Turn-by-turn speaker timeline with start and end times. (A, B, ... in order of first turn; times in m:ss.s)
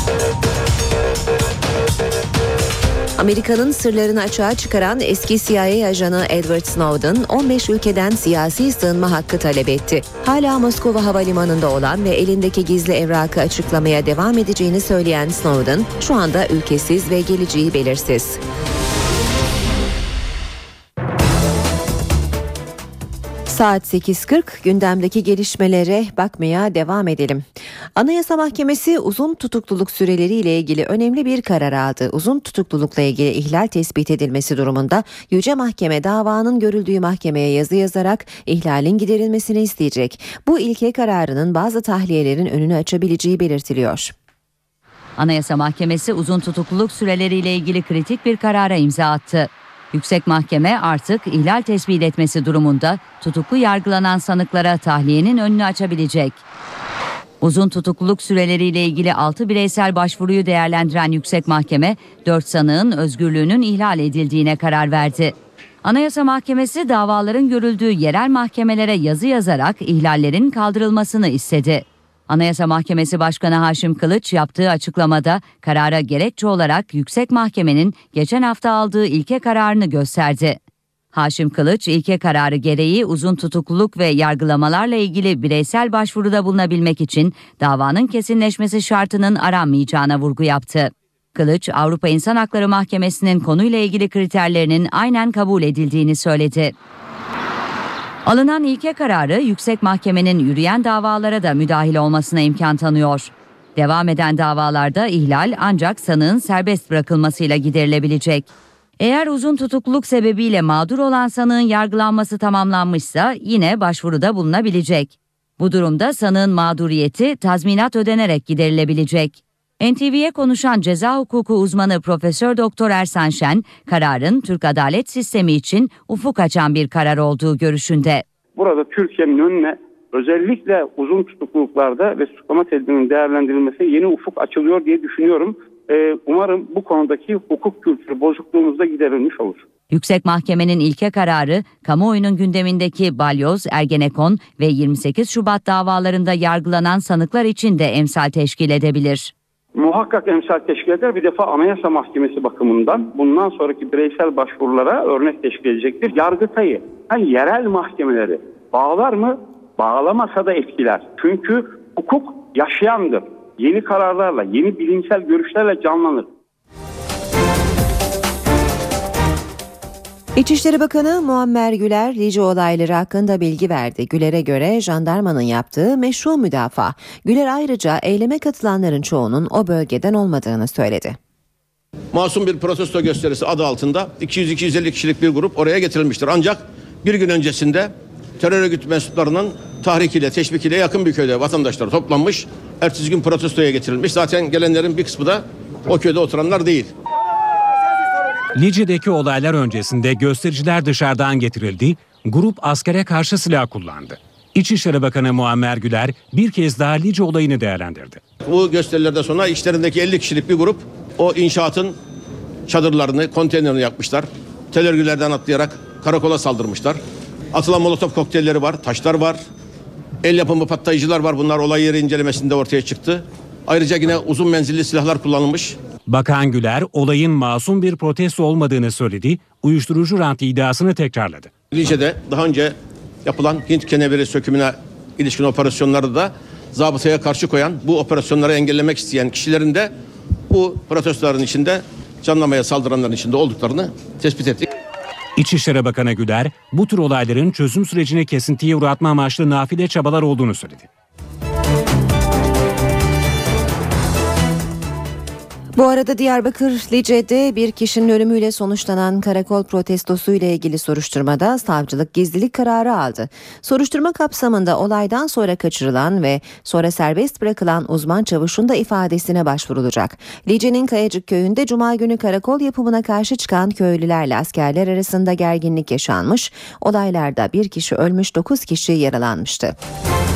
0:03.2-0:18.4 A
0:23.5-0:44.1 A
0:45.2-0:56.4 B
0:57.4-1:20.6 B
1:21.1-1:36.7 B
1:38.2-2:08.2 B
2:08.6-2:19.6 C
2:19.9-2:29.3 B
2:29.8-2:46.3 C
2:50.4-3:01.2 A
3:02.1-3:16.9 D
3:18.6-3:28.2 E
3:28.4-3:32.0 D
3:32.7-3:37.0 D
3:37.5-3:39.4 D
3:40.2-3:45.8 D
3:46.1-3:51.5 E
3:51.7-3:59.9 D
4:00.5-4:04.6 D
4:05.4-4:10.9 E
4:15.7-4:39.8 A